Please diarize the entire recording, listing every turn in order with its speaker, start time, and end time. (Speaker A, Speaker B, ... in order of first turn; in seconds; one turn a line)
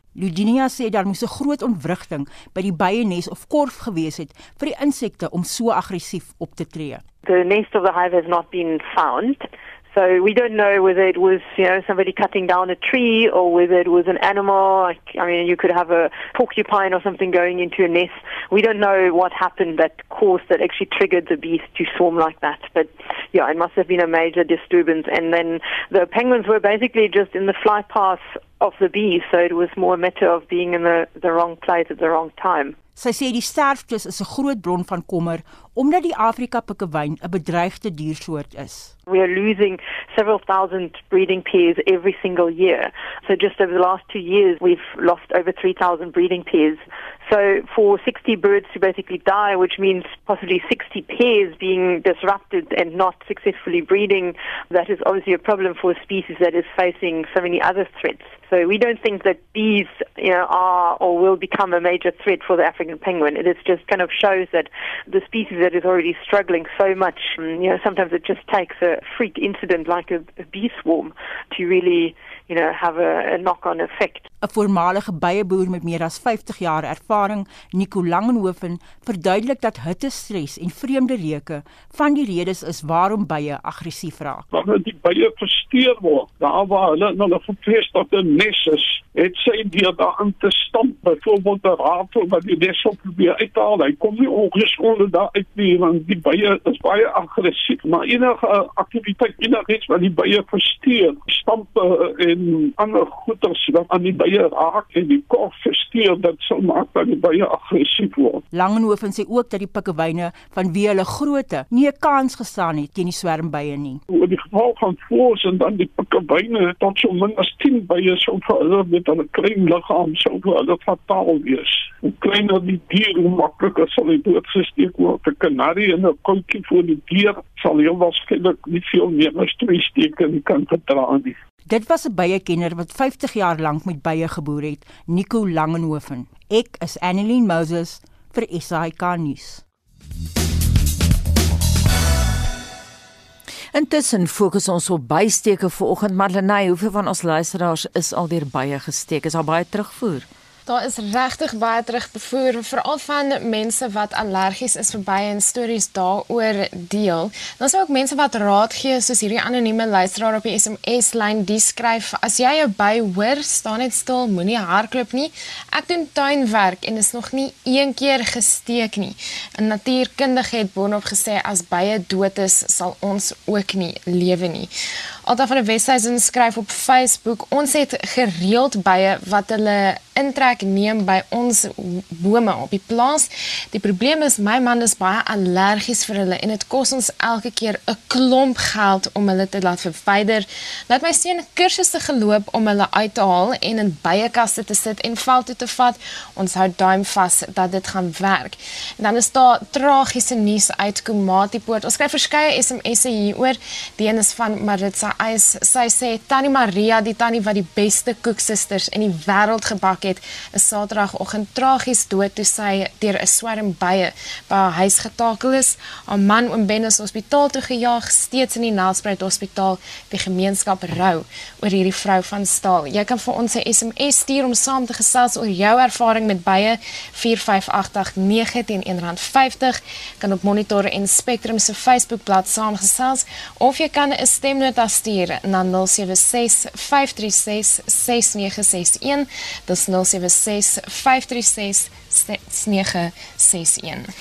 Speaker A: 0.1-7.0
Speaker B: 7.2-32.8
Speaker A: 33.0-38.9
Speaker B: 39.1-74.3
Speaker A: 74.4-84.5
Speaker C: 84.5-108.4
Speaker A: 108.5-114.0
Speaker C: 114.1-131.4
Speaker A: 131.7-139.6
Speaker D: 143.7-150.3
Speaker E: 150.7-174.7
Speaker E: 175.2-244.1